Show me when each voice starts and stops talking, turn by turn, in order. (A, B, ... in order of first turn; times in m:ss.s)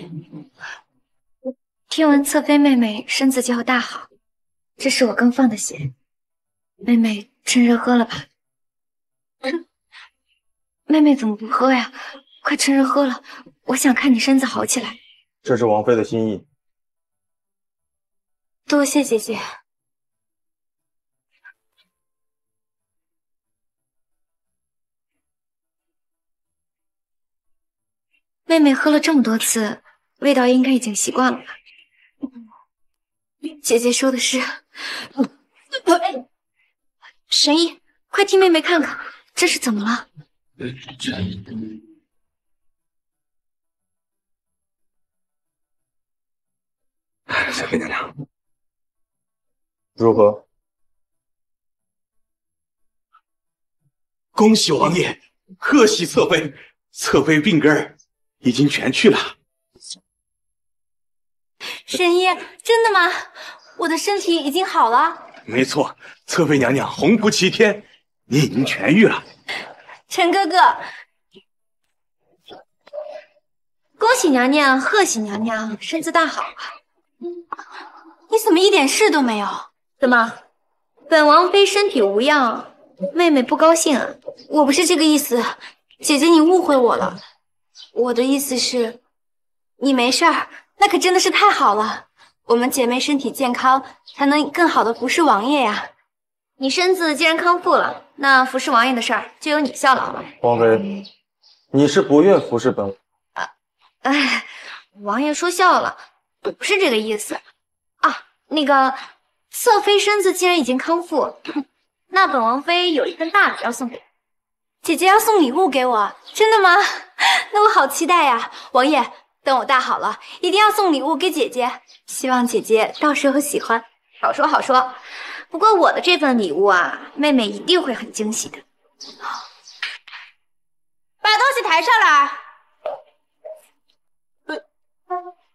0:01.9-0:04.1 A
0:04.8-0:05.9 A
0:06.8-0:08.2 A
0:10.9-0:15.0 A
0:15.4-0:16.4 B
0:18.7-0:19.4 C
0:28.5-0:31.5 A
0:33.4-0:34.5 C
0:37.3-0:40.0 A
0:47.3-0:48.1 D
0:50.0-0:50.4 B
0:54.4-0:59.3 D
1:01.8-1:05.3 C
1:05.4-1:09.2 D
1:10.1-1:10.8 C
1:14.0-1:16.7 A
1:18.3-1:19.7 C
1:20.0-1:20.4 A
1:21.1-1:24.2 A
1:24.5-1:27.2 C
1:27.9-1:29.0 C
1:29.8-1:35.9 C
1:36.6-1:40.3 A
1:40.4-1:41.0 B
1:41.7-1:43.0 B
1:44.0-1:47.4 A
1:48.0-1:51.4 A
1:52.1-1:54.0 A
1:54.8-2:03.8 C
2:04.2-2:05.0 A
2:05.5-2:08.6 A
2:11.2-2:12.4 C